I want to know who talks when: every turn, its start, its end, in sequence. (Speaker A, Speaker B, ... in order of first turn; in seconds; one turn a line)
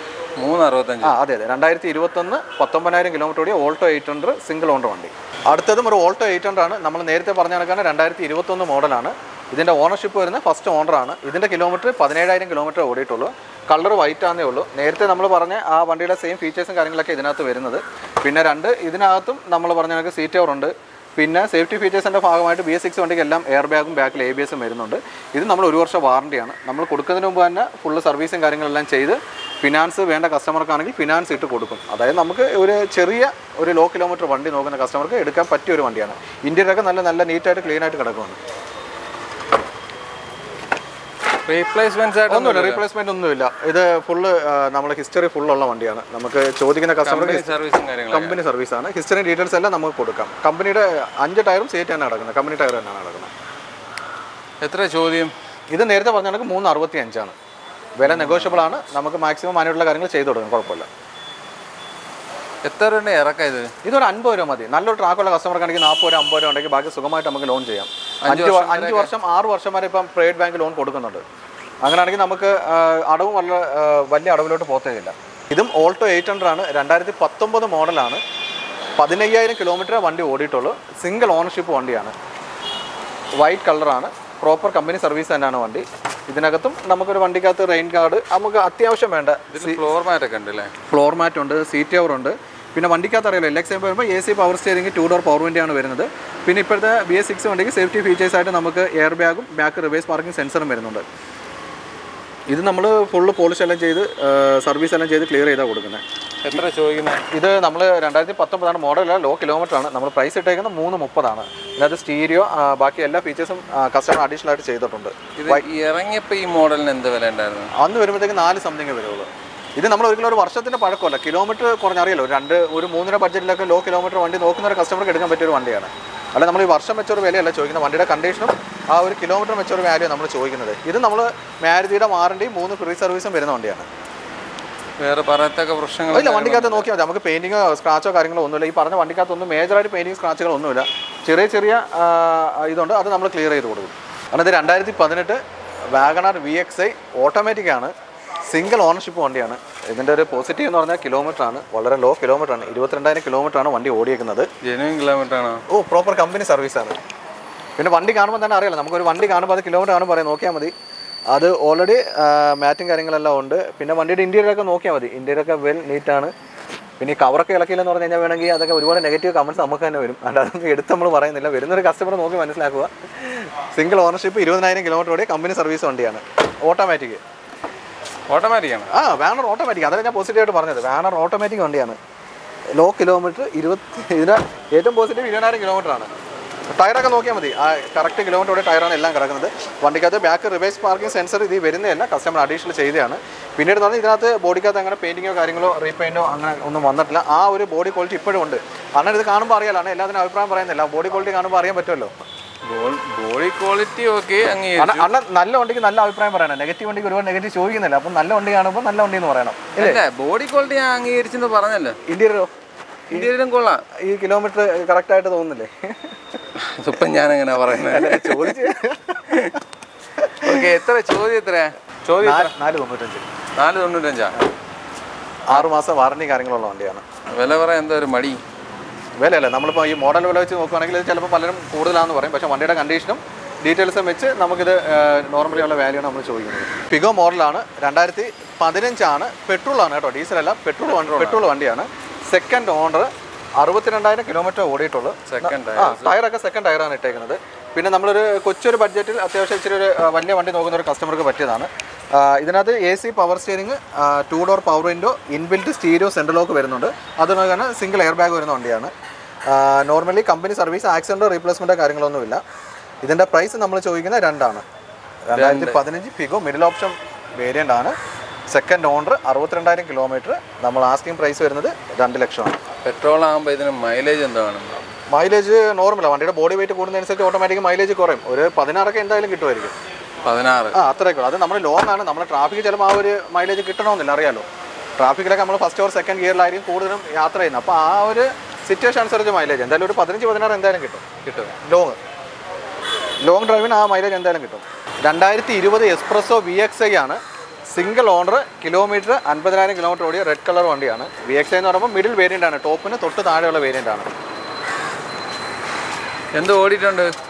Speaker A: 0.4-1.2
Speaker B: 1.0-38.4
Speaker A: 41.5-42.8
Speaker B: 42.3-47.5
Speaker A: 47.0-48.4
Speaker B: 48.1-53.3
Speaker A: 54.6-55.3
Speaker B: 55.7-57.4
Speaker B: 58.0-60.9
Speaker A: 58.1-58.6
Speaker A: 62.6-63.7
Speaker B: 63.8-71.2
Speaker A: 68.2-69.1
Speaker B: 71.8-78.2
Speaker B: 79.0-82.1
Speaker B: 83.4-89.8
Speaker A: 89.5-90.7
Speaker B: 90.9-101.0
Speaker B: 102.5-106.0
Speaker A: 106.4-107.2
Speaker B: 107.3-115.7
Speaker A: 115.4-117.7
Speaker B: 117.8-133.9
Speaker A: 135.0-136.9
Speaker B: 136.1-145.4
Speaker B: 145.9-147.9
Speaker B: 148.5-154.5
Speaker A: 154.6-155.6
Speaker B: 155.7-157.0
Speaker B: 157.8-160.7
Speaker B: 161.3-166.3
Speaker B: 167.0-177.2
Speaker A: 178.3-178.9
Speaker B: 178.9-182.0
Speaker B: 182.8-186.1
Speaker B: 186.7-202.2
Speaker A: 202.7-205.1
Speaker B: 204.8-210.0
Speaker A: 209.8-212.0
Speaker B: 212.1-212.5
Speaker A: 213.1-213.8
Speaker B: 214.0-216.2
Speaker A: 216.6-218.7
Speaker B: 217.7-219.5
Speaker A: 219.3-219.6
Speaker B: 220.2-220.6
Speaker A: 220.4-222.5
Speaker B: 222.2-223.3
Speaker A: 223.6-224.4
Speaker B: 225.5-227.0
Speaker A: 227.3-228.4
Speaker B: 229.2-258.9
Speaker A: 241.0-241.4
Speaker A: 245.3-246.2
Speaker B: 259.5-262.4
Speaker B: 263.0-264.6
Speaker B: 265.3-268.0
Speaker A: 265.3-265.8
Speaker B: 268.5-272.6
Speaker A: 272.8-274.9
Speaker B: 275.1-279.8
Speaker A: 280.2-280.8
Speaker B: 280.7-284.5
Speaker B: 285.0-291.1
Speaker A: 291.2-291.5
Speaker B: 291.6-292.0
Speaker B: 293.2-297.2
Speaker B: 297.7-304.1
Speaker A: 306.4-307.1